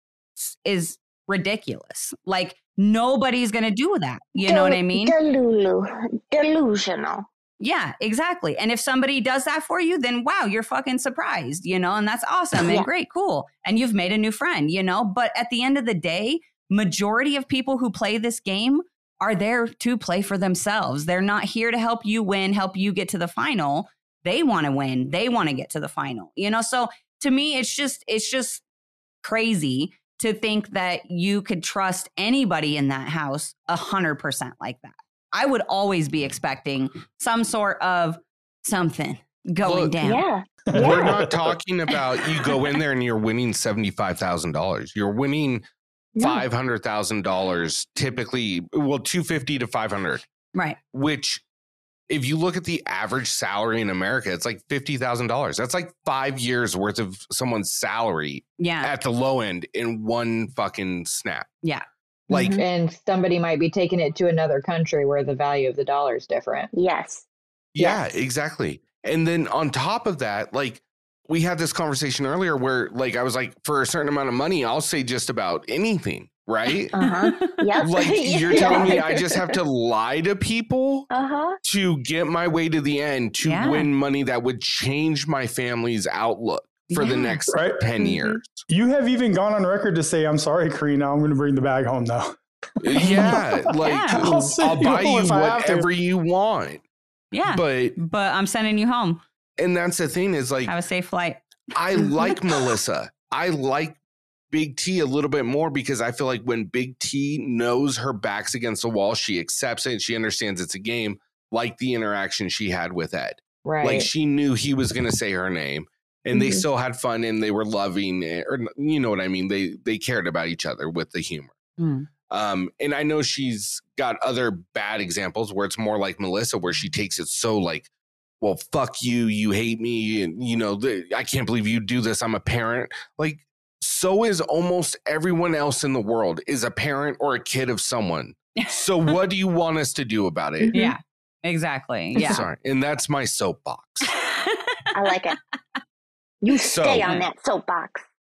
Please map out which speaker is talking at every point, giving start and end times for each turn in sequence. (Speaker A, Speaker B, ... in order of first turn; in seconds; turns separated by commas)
Speaker A: 0.4-5.2, Speaker B: 4.4-7.3, Speaker A: 7.6-28.6, Speaker B: 12.6-12.9, Speaker A: 29.2-40.2, Speaker C: 39.6-40.0, Speaker B: 40.0-41.3, Speaker D: 40.7-41.3, Speaker C: 40.7-45.6, Speaker B: 46.2-46.5, Speaker C: 46.2-50.3, Speaker C: 50.9-51.4, Speaker C: 52.1-61.5, Speaker A: 58.6-58.9, Speaker C: 62.3-62.6, Speaker B: 62.3-62.6, Speaker E: 62.6-66.7, Speaker B: 66.7-67.2, Speaker C: 67.8-77.0, Speaker B: 67.8-68.2, Speaker B: 76.9-79.6, Speaker A: 77.0-77.7, Speaker C: 77.8-81.1, Speaker B: 81.1-81.6, Speaker C: 81.6-88.7, Speaker A: 83.4-83.9, Speaker A: 86.9-87.4, Speaker D: 87.5-87.8, Speaker B: 88.0-88.4, Speaker D: 88.7-92.4, Speaker C: 92.8-96.8, Speaker D: 92.9-95.9, Speaker A: 93.8-94.2, Speaker A: 97.3-99.2, Speaker C: 97.5-98.0, Speaker C: 99.6-100.8, Speaker A: 100.7-101.5, Speaker C: 101.7-104.0, Speaker C: 104.5-121.5, Speaker E: 113.7-114.1, Speaker B: 116.3-116.7, Speaker A: 121.8-122.1, Speaker C: 122.3-127.9, Speaker C: 128.4-140.7, Speaker A: 138.6-139.1, Speaker B: 140.6-140.9, Speaker A: 140.7-142.4, Speaker C: 142.2-144.1, Speaker A: 144.1-144.8, Speaker B: 144.9-145.4, Speaker B: 146.4-148.0, Speaker C: 146.5-147.1